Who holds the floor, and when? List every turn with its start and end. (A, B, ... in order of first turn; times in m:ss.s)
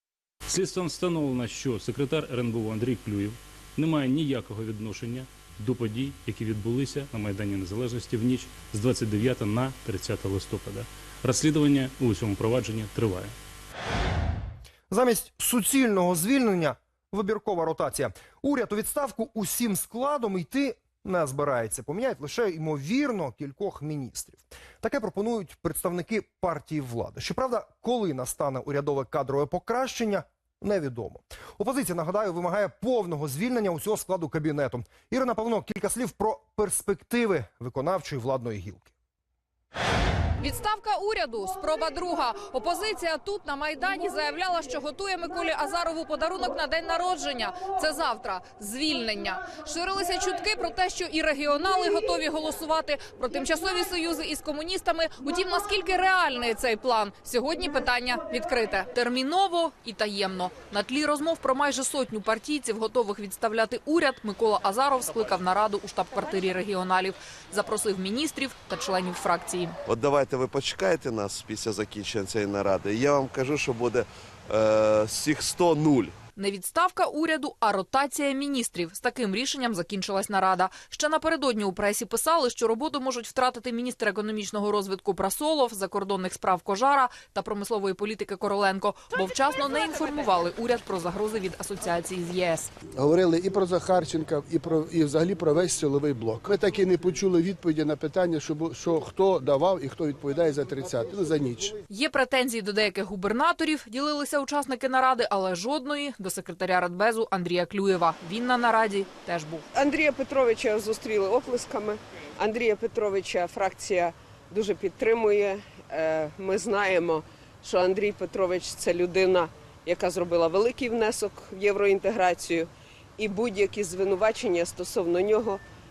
0:00.5-0:13.3 A
0:14.9-0:38.9 B
0:40.4-1:09.8 C
1:09.8-1:16.1 D
1:16.4-1:32.7 C
1:32.9-1:41.8 E
1:41.9-1:49.6 C
1:49.7-2:05.6 F